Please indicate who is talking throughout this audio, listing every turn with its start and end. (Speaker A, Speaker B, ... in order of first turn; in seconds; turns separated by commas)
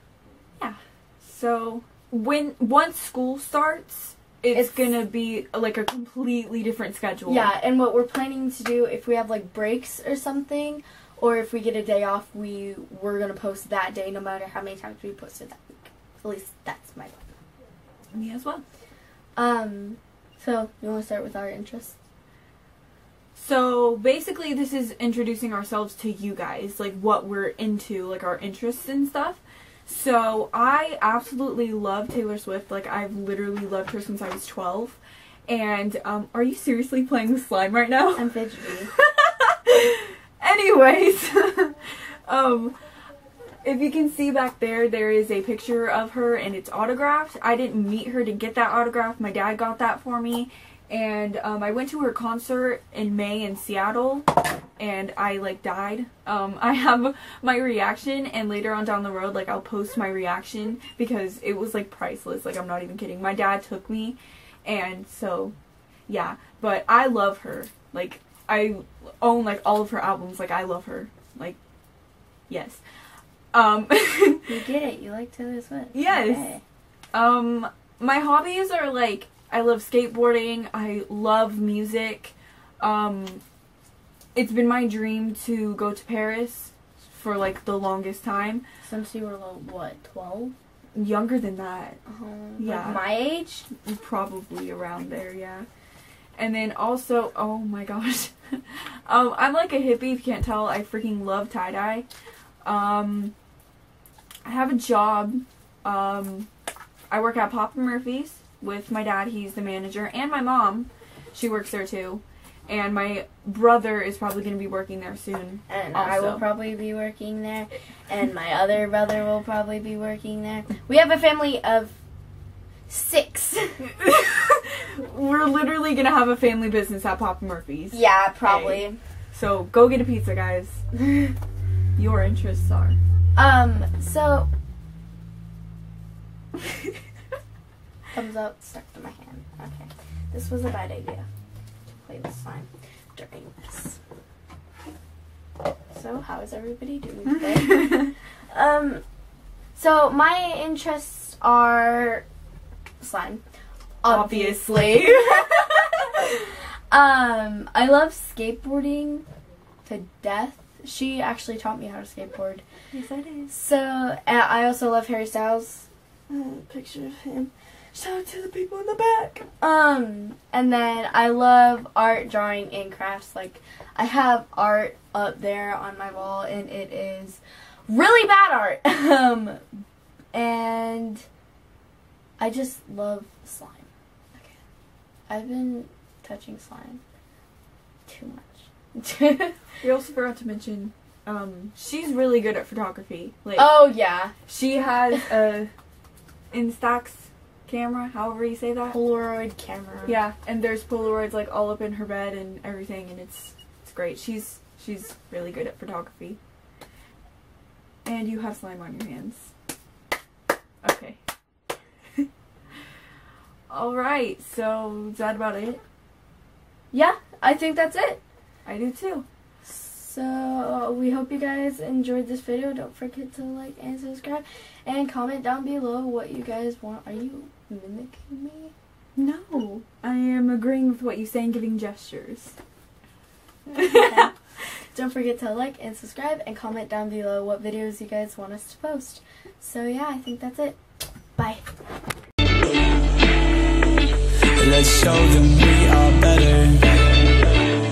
Speaker A: 0.6-7.5, Speaker B: 4.5-4.9, Speaker B: 7.3-17.4, Speaker A: 18.1-18.6, Speaker B: 19.4-22.0, Speaker A: 23.4-38.3, Speaker B: 38.1-38.9, Speaker A: 39.0-42.8, Speaker A: 43.6-65.5, Speaker A: 66.1-71.6, Speaker A: 72.5-72.8, Speaker A: 73.5-74.5, Speaker B: 74.5-76.6, Speaker A: 75.9-76.5, Speaker A: 77.1-83.4, Speaker A: 84.3-88.6, Speaker B: 88.8-90.5, Speaker A: 91.0-92.0, Speaker B: 92.1-93.7, Speaker A: 92.6-93.1, Speaker A: 93.7-95.7, Speaker A: 96.4-102.1, Speaker A: 102.6-103.3, Speaker A: 104.5-106.5, Speaker A: 107.1-116.5, Speaker B: 115.7-121.9, Speaker B: 122.9-123.8, Speaker A: 124.0-130.8, Speaker B: 127.9-129.0, Speaker A: 131.9-133.0, Speaker B: 133.3-134.5, Speaker B: 138.1-141.3, Speaker B: 142.0-144.0, Speaker B: 145.9-149.0, Speaker B: 149.8-152.2, Speaker B: 153.0-153.4, Speaker B: 154.0-159.2, Speaker A: 154.1-155.9, Speaker B: 159.8-162.6, Speaker A: 162.9-163.5, Speaker B: 163.5-179.6, Speaker B: 180.3-181.2, Speaker B: 182.4-184.6, Speaker B: 185.3-187.0, Speaker B: 188.1-189.7, Speaker A: 189.8-193.9, Speaker B: 193.6-194.3, Speaker A: 194.5-195.7, Speaker A: 196.5-199.0, Speaker B: 198.9-200.2, Speaker A: 200.1-206.4, Speaker A: 208.1-209.5, Speaker A: 210.8-211.2, Speaker A: 213.7-215.8, Speaker B: 216.9-218.2, Speaker A: 218.7-219.2, Speaker B: 219.6-228.7, Speaker A: 229.2-232.6, Speaker B: 233.7-234.3, Speaker A: 233.8-234.3, Speaker B: 234.9-240.8, Speaker B: 241.4-241.6, Speaker C: 244.6-246.8